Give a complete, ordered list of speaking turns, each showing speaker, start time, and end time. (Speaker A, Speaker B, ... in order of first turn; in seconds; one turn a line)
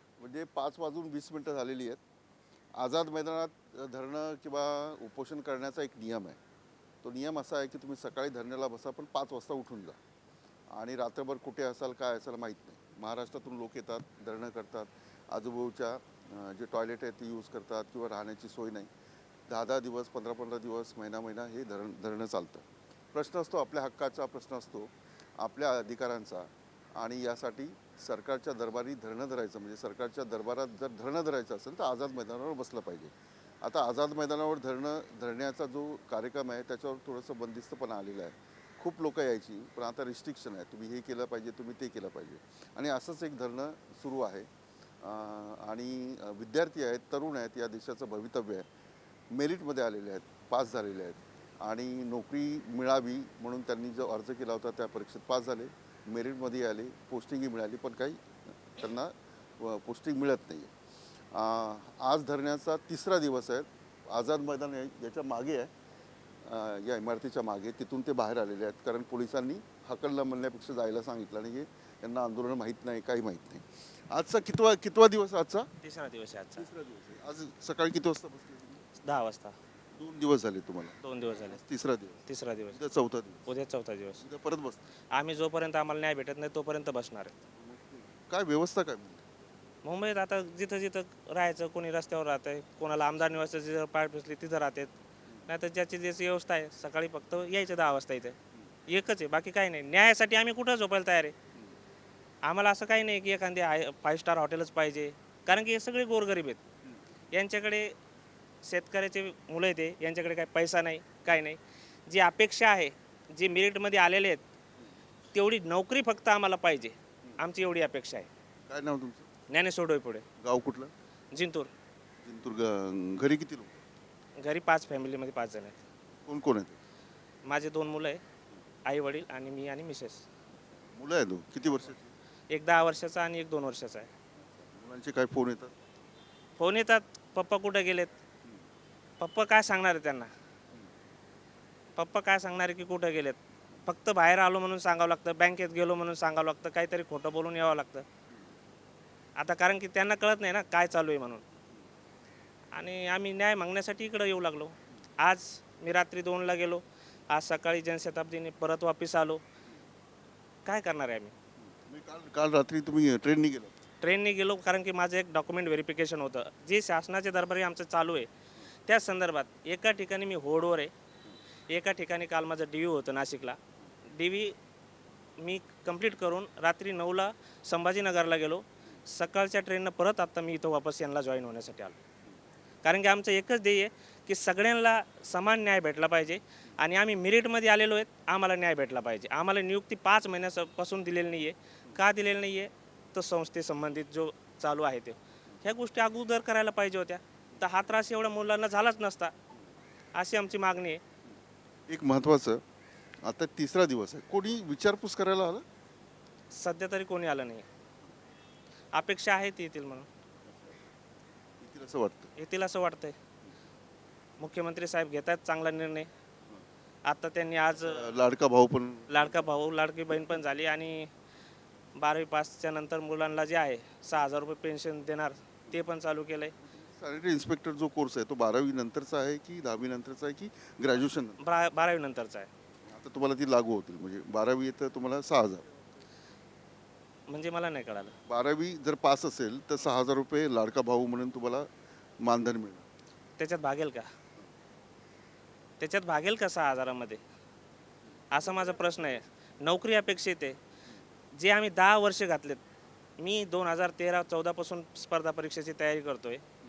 Speaker A: 0.2-2.0
Speaker A: 2.7-6.4
Speaker A: 7.0-10.0
Speaker A: 10.7-18.9
Speaker A: 19.5-44.5
Speaker A: 45.0-48.7
Speaker A: 49.3-58.2
Speaker A: 58.7-60.7
Speaker A: 61.3-65.7
Speaker A: 66.4-75.7
Speaker B: 75.8-76.7
Speaker A: 76.6-78.8
Speaker B: 79.0-79.5
Speaker A: 80.0-82.2
Speaker B: 81.0-81.6
Speaker B: 82.3-82.8
Speaker A: 82.7-83.5
Speaker B: 83.5-84.2
Speaker A: 84.2-84.8
Speaker B: 85.1-87.4
Speaker A: 87.6-89.2
Speaker B: 89.8-94.9
Speaker B: 95.5-101.3
Speaker B: 102.4-106.6
Speaker B: 107.3-108.0
Speaker B: 108.6-114.4
Speaker B: 115.3-118.3
Speaker A: 118.7-119.3
Speaker B: 119.5-120.2
Speaker A: 120.4-120.9
Speaker B: 121.3-121.7
Speaker A: 122.2-123.8
Speaker B: 124.4-125.8
Speaker A: 126.2-126.8
Speaker B: 127.4-128.2
Speaker B: 128.8-130.2
Speaker A: 130.9-132.1
Speaker B: 132.5-134.1
Speaker A: 134.7-135.7
Speaker B: 136.6-138.1
Speaker B: 139.2-140.3
Speaker B: 141.9-148.1
Speaker B: 149.3-151.4
Speaker B: 152.7-159.4
Speaker B: 160.6-161.3
Speaker A: 161.8-163.7
Speaker B: 164.0-168.3
Speaker B: 168.9-170.9
Speaker B: 171.7-174.6
Speaker B: 175.4-182.0
Speaker B: 182.8-199.3
Speaker B: 200.2-201.0
Speaker A: 201.9-202.6
Speaker A: 203.2-205.6
Speaker B: 206.5-207.7
Speaker B: 208.9-210.1
Speaker A: 211.6-212.3
Speaker B: 212.3-213.2
Speaker B: 214.4-216.1
Speaker B: 217.1-218.0
Speaker A: 217.8-219.4
Speaker B: 219.1-221.1
Speaker B: 221.9-226.5
Speaker A: 226.6-231.4
Speaker B: 231.4-232.5
Speaker A: 232.9-235.6
Speaker B: 237.3-238.2
Speaker A: 238.3-241.7
Speaker A: 242.2-242.8
Speaker B: 243.4-244.1
Speaker B: 245.8-247.2
Speaker B: 248.3-250.6
Speaker B: 251.3-252.6
Speaker B: 253.2-256.4